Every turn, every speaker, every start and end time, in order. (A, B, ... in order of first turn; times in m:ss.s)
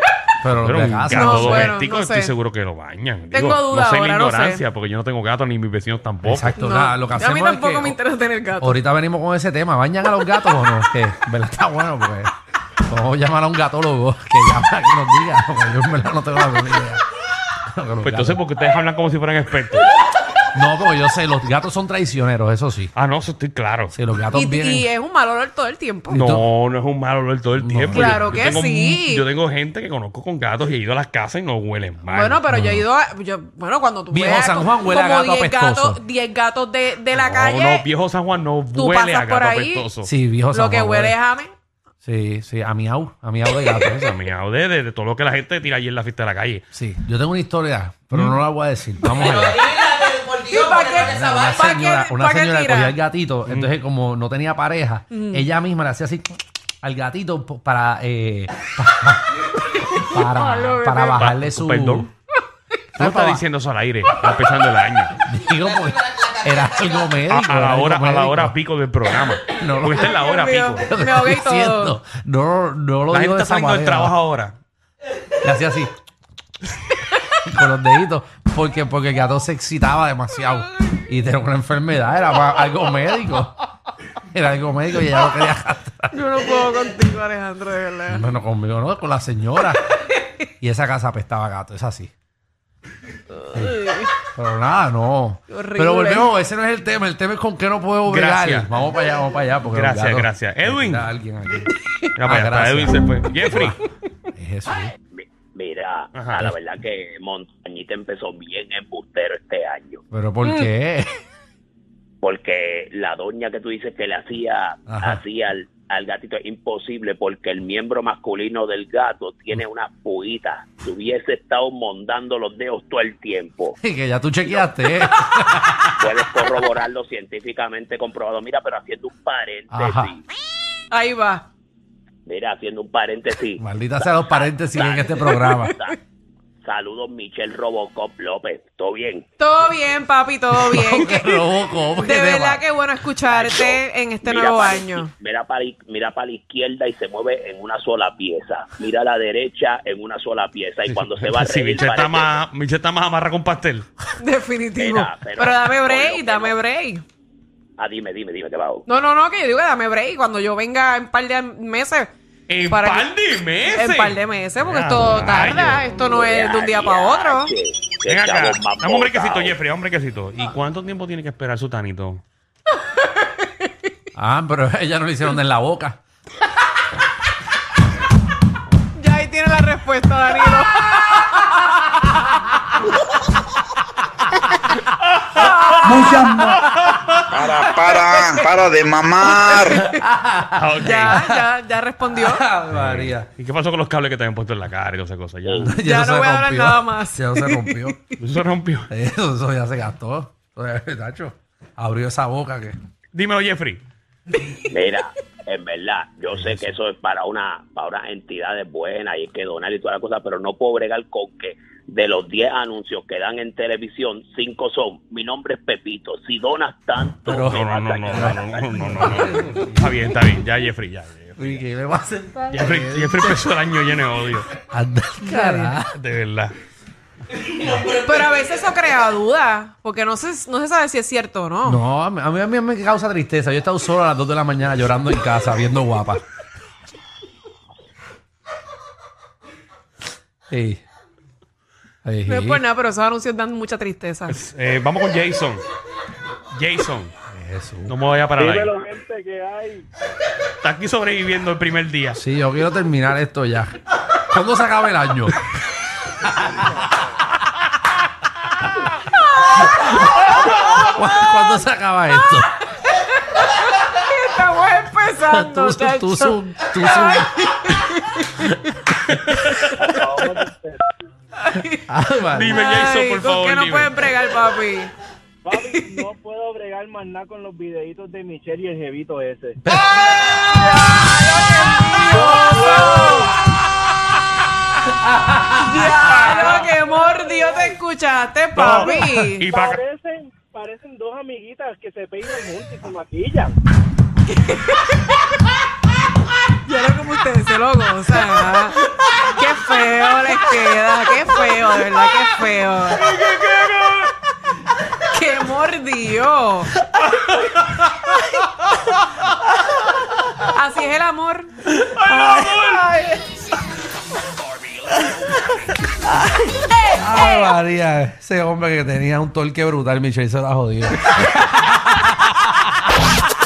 0:00.4-0:01.7 A
0:00.4-0:06.6 B
0:01.1-0:02.3 C
0:03.3-0:04.6 C
0:06.2-0:08.0 A
0:06.6-0:08.8 C
0:08.6-0:17.0 A
0:17.6-0:18.4 A
0:18.0-0:19.8 B
0:20.5-0:22.9 A
0:22.9-0:23.9 B
0:23.9-0:24.9 A
0:24.3-0:26.2 C
0:26.1-0:26.4 A
0:26.1-0:32.4 B
0:27.6-0:28.6 A
0:27.9-0:29.2 C
0:32.1-0:37.9 C
0:32.5-0:32.8 A
0:34.1-0:36.0 A
0:37.1-0:40.1 B
0:38.7-0:39.9 C
0:40.0-0:41.2 A
0:40.5-0:41.5 C
0:42.0-0:44.1 A
0:43.8-0:46.6 B
0:46.7-0:49.6 A
0:49.2-0:53.0 C
0:51.0-1:02.1 A
0:53.4-0:53.7 B
0:55.1-0:55.4 C
1:00.1-1:01.2 C
1:01.2-1:02.1 B
1:02.9-1:03.4 A
1:03.0-1:05.1 B
1:05.2-1:08.5 A
1:07.3-1:10.9 B
1:09.5-1:10.1 A
1:10.0-1:12.0 C
1:10.8-1:14.1 A
1:13.1-1:14.6 B
1:15.4-1:15.9 A
1:17.4-1:23.6 A
1:24.2-1:26.2 A
1:26.1-1:28.3 C
1:28.1-1:29.8 A
1:30.6-1:32.1 A
1:33.5-1:43.8 A
1:33.5-1:34.1 C
1:35.5-1:36.3 C
1:38.1-1:38.7 B
1:39.7-1:41.1 B
1:42.2-1:43.8 B
1:44.3-1:44.9 A
1:45.1-1:50.0 D
1:46.1-1:46.5 B
1:50.1-1:51.1 A
1:52.2-2:03.8 D
1:54.9-1:55.2 A
2:03.8-2:06.2 A
2:06.0-2:10.2 D
2:09.7-2:10.1 A
2:10.9-2:11.4 C
2:12.2-2:13.6 D
2:13.6-2:15.7 A
2:14.1-2:16.0 D
2:16.6-2:19.2 D
2:19.4-2:25.1 C
2:20.5-2:22.6 A
2:23.3-2:32.3 D
2:31.2-2:33.9 B
2:34.2-2:37.0 C
2:34.8-2:36.5 D
2:37.8-2:38.8 D
2:38.8-2:42.1 C
2:42.5-2:45.9 B
2:42.7-2:43.1 C
2:43.7-2:47.5 C
2:46.0-2:49.6 D
2:48.1-2:52.2 B
2:54.1-2:56.0 A
2:58.9-3:02.2 C
3:05.4-3:06.1 C
3:05.8-3:06.6 E
3:07.3-3:09.8 E
3:09.9-3:11.4 A
3:10.5-3:11.2 B
3:10.8-3:12.4 C
3:12.1-3:13.3 A
3:12.7-3:15.7 B
3:15.4-3:15.7 D
3:15.6-3:18.0 A
3:15.8-3:17.9 C
3:18.2-3:18.9 B
3:18.9-3:22.8 A
3:23.1-3:23.8 B
3:24.7-3:38.5 D
3:37.2-3:39.9 A
3:37.4-3:41.6 B
3:41.4-3:43.4 A
3:42.5-3:44.5 B
3:44.6-3:45.9 A
3:45.2-3:45.7 C
3:45.9-3:46.5 B
3:47.8-3:51.8 C
3:51.6-3:56.2 A
4:00.5-4:00.8 A
4:02.0-4:02.6 A
4:02.2-4:04.4 C
4:04.3-4:05.6 B
4:06.5-4:07.1 B
4:07.3-4:07.9 A
4:07.9-4:08.7 B
4:08.4-4:09.8 F
4:10.6-4:12.2 B
4:12.2-4:15.4 A
4:16.2-4:16.6 A
4:19.4-4:19.7 C
4:19.8-4:20.2 A
4:20.8-4:22.5 A
4:22.9-4:28.4 C
4:25.3-4:27.7 A
4:28.3-4:29.6 A
4:29.2-4:29.7 B
4:29.7-4:30.8 F
4:31.4-4:31.8 C
4:31.8-4:32.6 A
4:32.3-4:33.9 B
4:32.5-4:34.9 C
4:35.4-4:39.6 F
4:40.2-4:43.4 C
4:42.0-4:43.3 F
4:45.0-4:45.9 A
4:45.5-4:49.4 C
4:46.1-4:46.6 B
4:48.5-4:49.8 B
4:49.5-4:53.6 F
4:54.3-4:55.0 C
4:56.6-5:03.1 C
5:05.1-5:06.7 C
5:10.4-5:11.5 C
5:11.7-5:13.2 A
5:12.2-5:12.8 B
5:16.8-5:22.6 A